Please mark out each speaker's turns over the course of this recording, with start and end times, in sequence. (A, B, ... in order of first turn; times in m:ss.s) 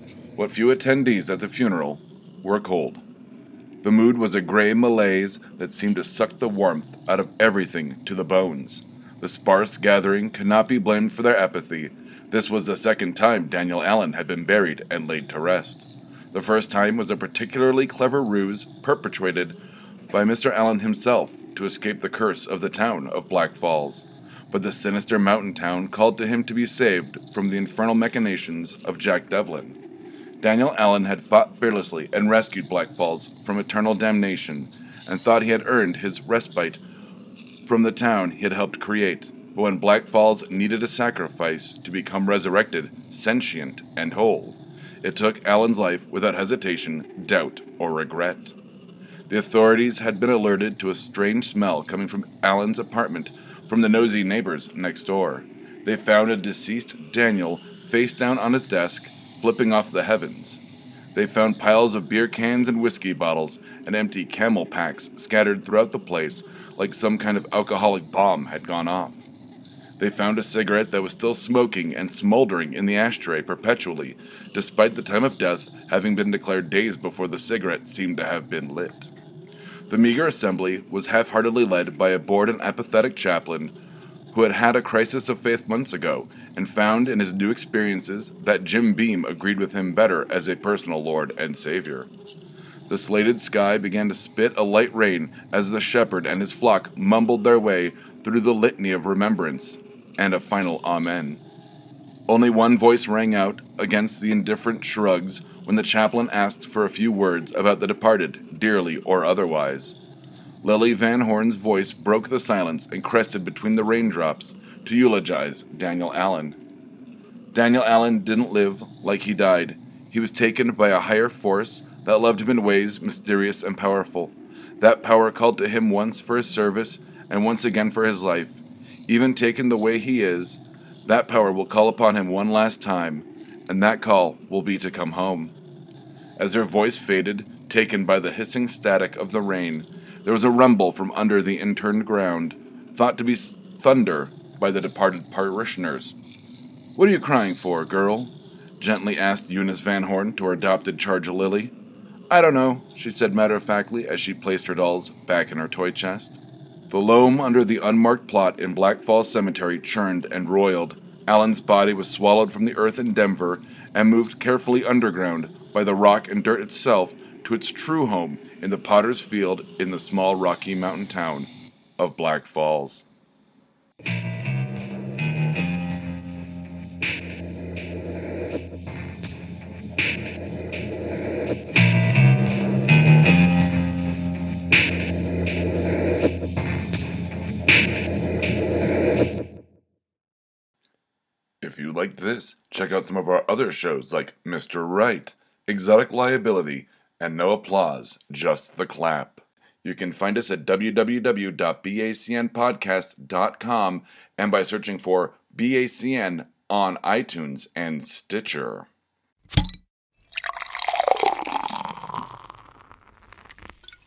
0:00.4-0:03.0 A
0:03.8-0:19.6 A
0:20.1-0:29.8 A
0:30.4-0:36.8 A
0:37.6-0:48.6 A
0:49.3-1:00.6 A
1:01.1-1:09.3 A
1:10.0-1:19.1 A
1:19.9-1:23.7 A
1:24.3-1:32.1 A
1:32.9-1:41.4 A
1:42.3-1:50.0 A
1:50.6-1:56.6 A
1:57.5-2:15.6 A
2:16.4-2:26.2 A
2:27.0-2:31.7 A
2:32.3-2:53.1 A
3:11.6-3:28.9 A